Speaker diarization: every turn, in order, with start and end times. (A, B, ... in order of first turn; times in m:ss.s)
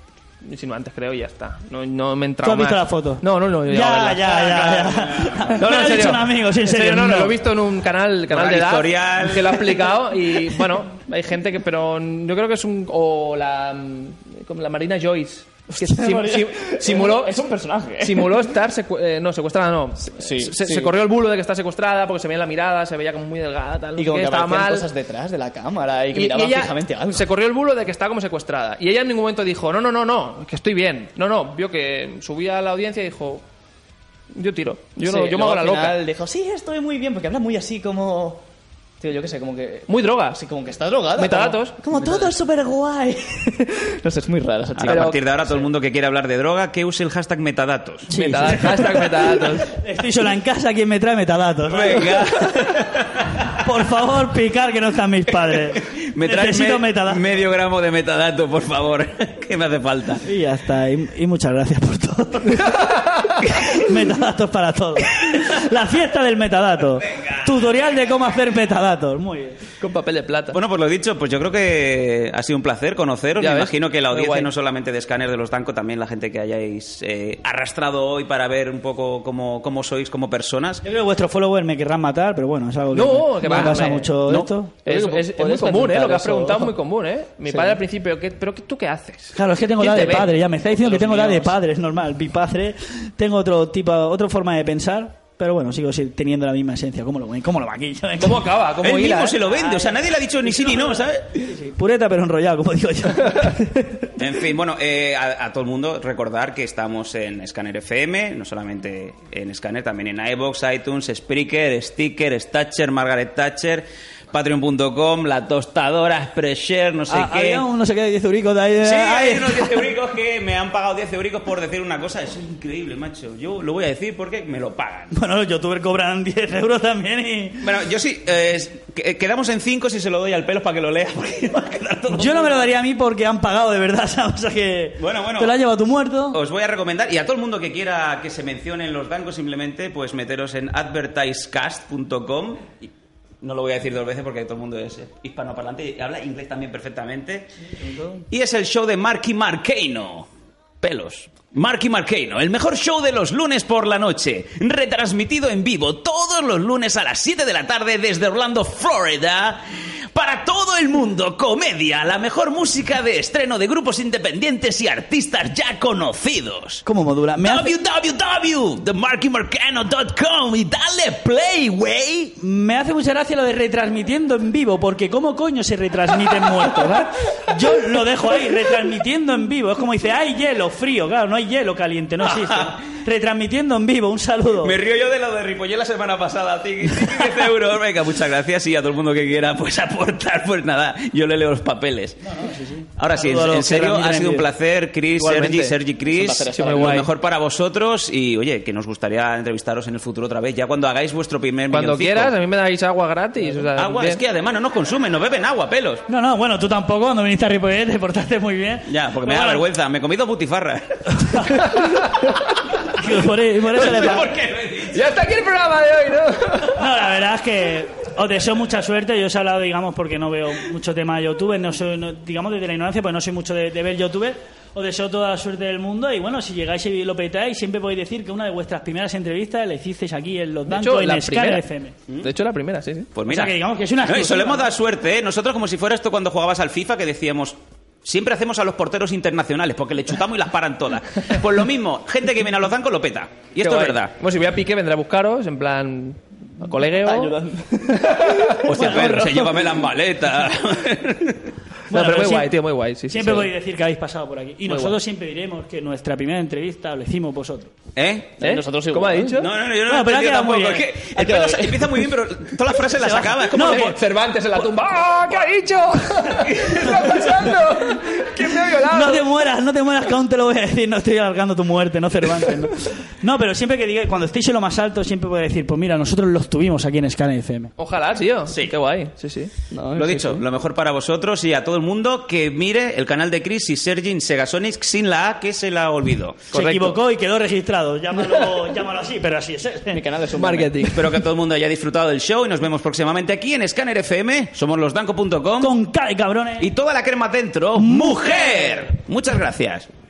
0:00.4-0:04.8 A
0:02.4-0:07.4 B
0:04.4-0:05.5 C
0:05.4-0:17.4 A
0:08.3-0:09.9 C
0:15.8-0:18.5 D
0:18.0-0:24.9 A
0:20.0-0:20.9 D
0:24.0-0:27.3 D
0:26.1-0:33.4 A
0:34.3-0:36.0 A
0:35.0-0:38.4 D
0:39.0-0:45.6 D
0:39.9-0:40.4 A
0:41.2-0:42.3 A
0:44.8-0:48.1 C
0:44.9-0:45.2 A
0:48.1-0:52.2 B
0:48.1-0:49.7 A
0:51.7-0:53.6 C
0:53.6-0:57.2 B
0:55.9-1:00.2 C
1:00.2-1:02.8 B
1:03.4-1:09.7 B
1:07.2-1:07.5 C
1:09.8-1:10.6 A
1:10.5-1:20.8 C
1:13.4-1:14.5 A
1:20.8-1:24.7 B
1:22.9-1:24.2 A
1:23.6-1:23.8 D
1:24.3-1:24.5 C
1:24.8-1:26.7 D
1:24.8-1:31.6 A
1:27.5-1:27.8 D
1:29.4-1:38.4 B
1:38.2-1:39.4 A
1:38.8-1:41.3 C
1:39.4-1:44.1 B
1:44.2-1:57.6 C
1:57.1-1:59.9 B
1:58.8-2:05.1 C
2:05.1-2:07.7 B
2:07.6-2:12.7 C
2:12.1-2:16.4 B
2:15.0-2:15.6 C
2:16.3-2:27.5 C
2:27.7-2:28.2 B
2:28.3-2:30.3 C
2:30.8-2:46.8 C
2:46.8-2:47.7 B
2:47.4-2:52.4 C
2:52.4-3:04.8 B
3:02.2-3:02.8 C
3:04.6-3:12.2 C
3:12.2-3:14.5 B
3:13.0-3:22.3 C
3:15.2-3:15.8 A
3:16.1-3:17.1 D
3:16.5-3:17.1 A
3:21.7-3:24.2 A
3:23.8-3:26.0 C
3:26.1-3:29.6 B
3:28.9-3:31.6 C
3:31.2-3:32.4 B
3:32.9-3:34.3 B
3:33.7-3:35.0 C
3:34.9-3:36.8 A
3:36.7-3:52.0 B
3:50.7-3:51.6 A
3:52.2-3:53.1 A
3:53.1-4:04.1 C
3:53.3-3:54.7 B
4:03.6-4:07.4 A
4:07.0-4:09.0 D
4:08.3-4:08.5 A
4:08.7-4:11.5 C
4:08.7-4:09.6 B
4:11.9-4:12.5 B
4:11.9-4:13.5 A
4:13.1-4:17.7 B
4:14.7-4:15.0 A
4:18.0-4:18.4 C
4:18.4-4:19.4 D
4:18.4-4:19.5 A
4:19.4-4:23.9 C
4:19.9-4:20.9 B
4:21.2-4:22.1 D
4:23.0-4:24.0 B
4:23.5-4:29.3 A
4:26.4-4:27.6 B
4:26.6-4:27.0 C
4:28.7-4:37.7 B
4:37.8-4:39.5 A
4:38.5-4:38.7 C
4:39.7-4:40.4 D
4:39.9-4:46.5 C
4:46.5-4:47.0 A
4:46.5-4:50.0 B
4:49.9-4:51.1 D
4:50.4-4:51.1 A
4:50.9-4:55.8 C
4:55.6-4:56.7 B
4:56.6-4:59.9 C
4:57.8-4:58.9 B